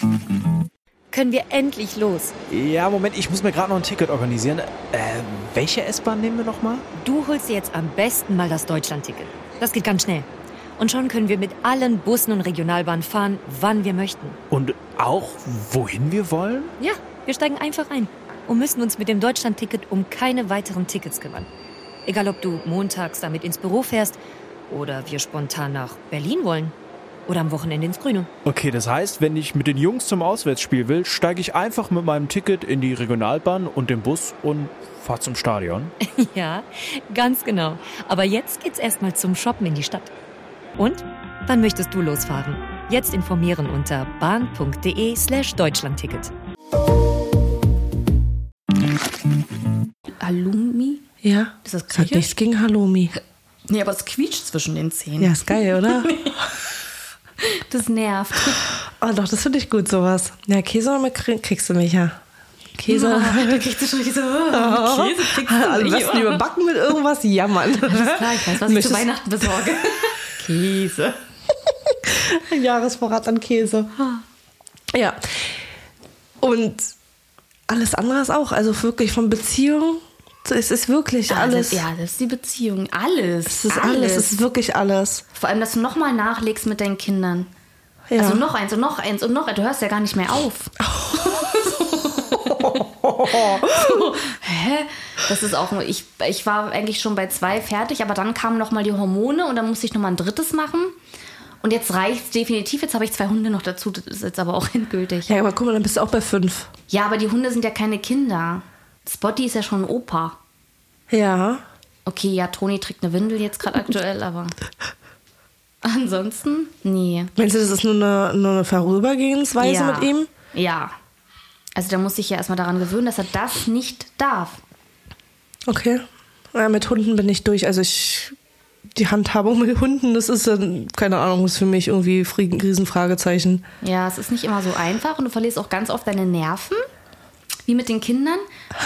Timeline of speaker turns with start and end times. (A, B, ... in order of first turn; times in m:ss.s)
0:01.1-0:02.3 A
0:02.5-0:06.8 B
0:07.0-0:10.3 A
0:10.8-0:14.4 A
0:14.5-0:16.7 B
0:16.8-0:21.5 A
0:22.0-0:24.2 A
0:24.7-0:26.7 A
0:27.3-0:28.3 A
0:28.4-0:35.9 B
0:36.0-0:40.1 A
0:40.8-0:46.3 A
0:50.2-0:51.1 C
0:51.2-0:53.1 D
0:51.6-0:52.3 C
0:53.7-0:56.4 C
0:55.2-0:56.2 D
0:57.4-0:58.6 C
0:59.0-1:02.2 D
1:02.8-1:03.6 D
1:02.9-1:06.4 C
1:04.5-1:09.1 D
1:07.8-1:11.2 C
1:11.9-1:13.9 D
1:14.9-1:15.6 D
1:16.4-1:16.9 D
1:17.7-1:21.8 D
1:21.3-1:24.3 C
1:23.4-1:25.2 D
1:25.3-1:27.5 C
1:28.1-1:28.4 D
1:28.2-1:41.0 C
1:30.8-1:31.3 D
1:32.4-1:34.0 D
1:41.6-1:45.4 C
1:45.3-1:46.7 D
1:46.9-1:50.4 C
1:51.1-1:51.6 D
1:52.0-1:54.5 C
1:55.8-1:57.3 C
1:57.4-2:00.3 D
1:59.6-2:00.9 C
2:01.7-2:04.6 C
2:05.7-2:08.3 D
2:08.9-2:13.6 D
2:13.8-2:16.8 C
2:17.6-2:18.4 C